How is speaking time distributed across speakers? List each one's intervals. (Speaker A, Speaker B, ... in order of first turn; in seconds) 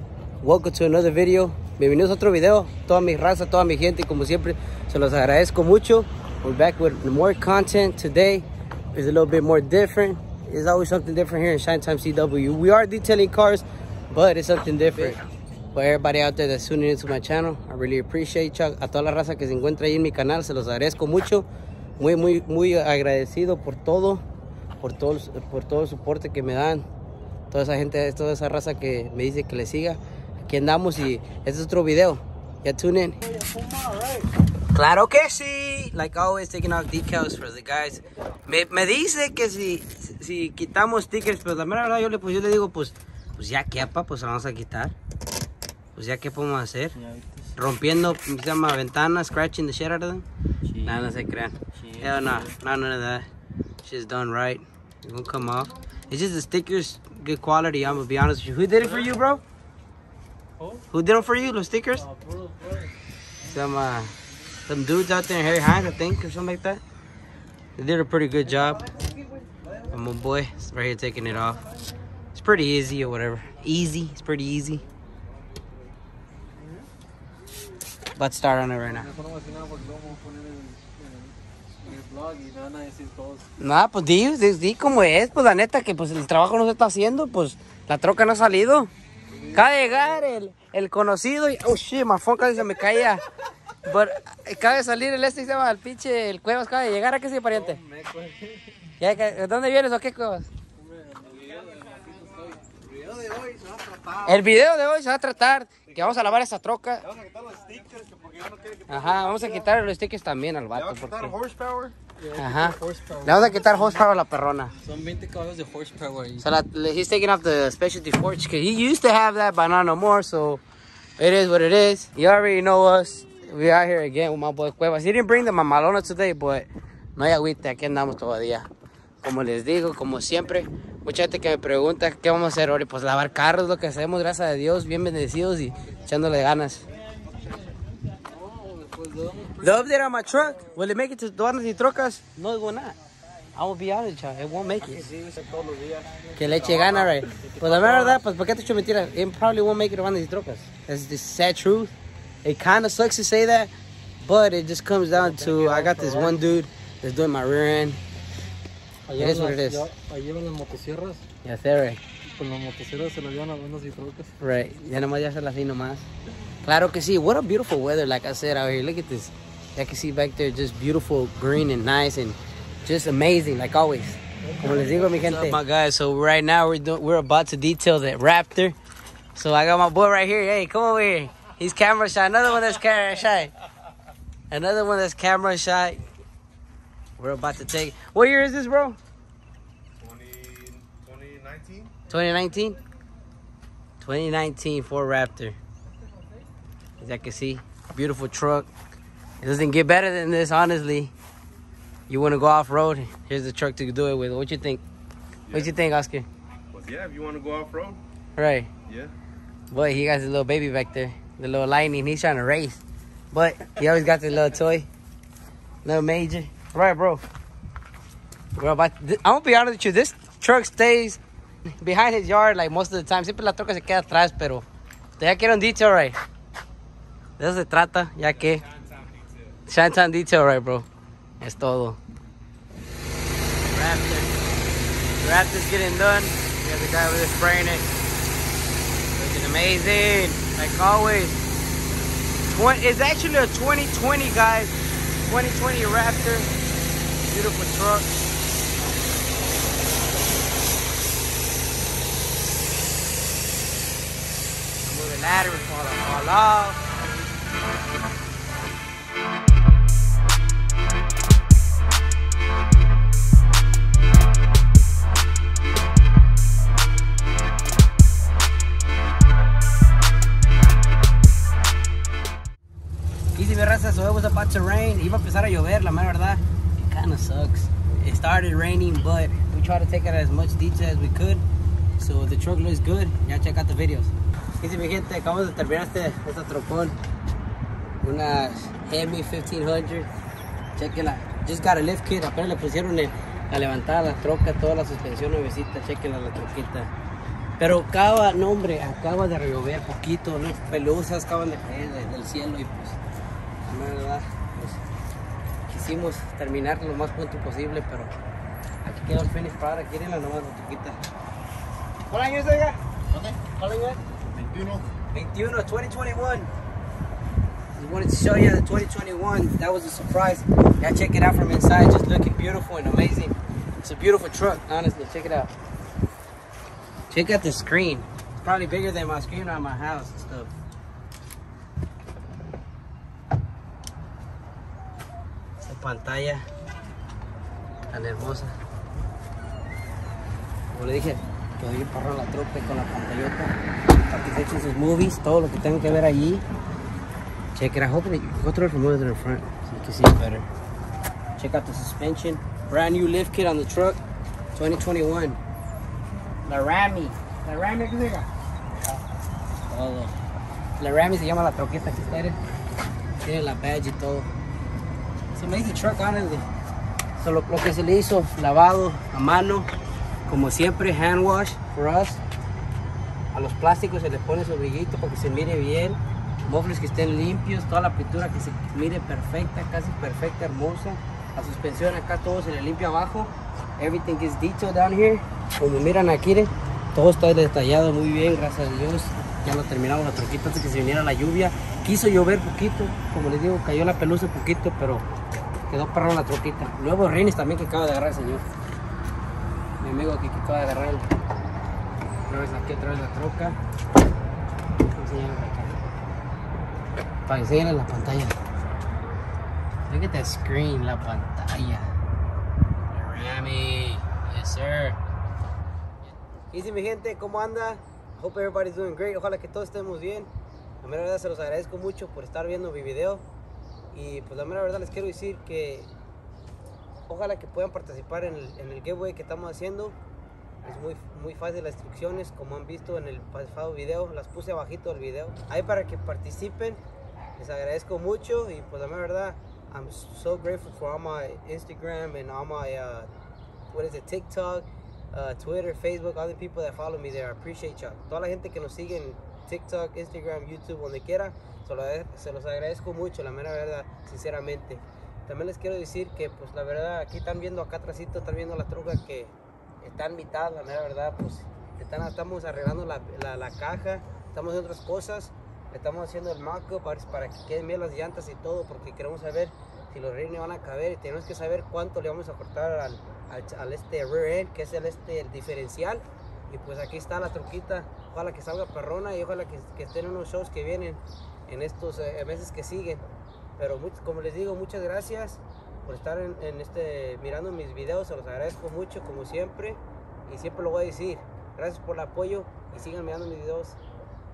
Speaker A: 0.4-15.2, 15.7-21.4, 22.0-24.2, 24.8-26.9, 27.5-33.3, 34.7-44.9, 45.9-47.0, 47.5-53.3, 53.8-59.4, 60.9-62.1, 63.4-64.1, 64.6-66.8, 67.8-68.9, 69.9-71.6, 72.3-74.8, 78.2-79.1, 83.6-93.2, 93.8-97.8, 99.0-100.5, 104.2-107.1, 108.9-111.4, 112.3-114.7, 116.4-120.6, 121.2-128.7, 129.2-136.8, 139.6-143.0, 143.5-145.1, 146.3-151.9, 152.4-158.0, 159.1-159.9, 161.4-162.0, 164.4-166.1, 166.6-178.8, 179.3-183.5, 184.5-186.0, 187.2-189.0, 192.1-192.8, 194.0-195.6, 197.0-198.7, 199.4-201.1, 202.1-204.8, 205.5-206.3, 208.3-208.7, 209.7-214.9, 215.8-217.2, 218.6-221.2, 221.8-224.7, 225.2-226.2, 227.4-228.7, 229.7-230.9, 231.4-232.0, 233.7-234.3, 235.2-237.8, 239.1-241.4, 242.5-246.5, 247.2-248.1, 254.8-256.9, 273.3-281.4, 282.0-287.0, 288.0-290.1, 290.8-296.9, 297.6-303.0, 303.6-304.8, 305.7-308.1, 308.8-311.0, 312.1-314.0, 315.1-316.5, 317.8-325.5, 327.1-330.5, 335.6-336.5, 337.9-338.6, 340.7-343.5, 344.1-346.4, 347.5-350.4, 351.4-354.0, 354.5-355.4, 356.4-358.3, 359.7-360.1, 360.8-362.4, 363.2-364.3, 365.3-366.5, 367.2-369.7, 370.2-372.2, 373.3-395.1, 395.7-398.4, 399.8-401.1, 402.3-403.6, 404.9-405.8, 407.2-408.4, 409.8-411.9, 412.9-415.0, 416.5-420.3, 420.8-423.2, 423.9-425.9, 427.1-429.9, 430.6-436.8, 437.4-443.1, 443.7-483.0, 483.6-493.8
Speaker B: 33.4-34.2, 62.1-62.8, 79.0-83.4, 97.8-98.6, 100.8-104.1, 107.2-108.8, 111.4-113.4, 114.8-116.4, 138.2-139.6, 145.1-148.2, 159.9-160.3, 162.3-164.3, 190.0-191.9, 206.7-208.0, 314.4-314.8
Speaker C: 47.0-47.3, 51.9-52.5, 62.1-62.6, 101.3-102.3, 103.2-103.8, 112.7-113.7, 114.8-116.3, 145.2-145.7, 159.1-161.2, 162.5-163.2, 163.8-164.2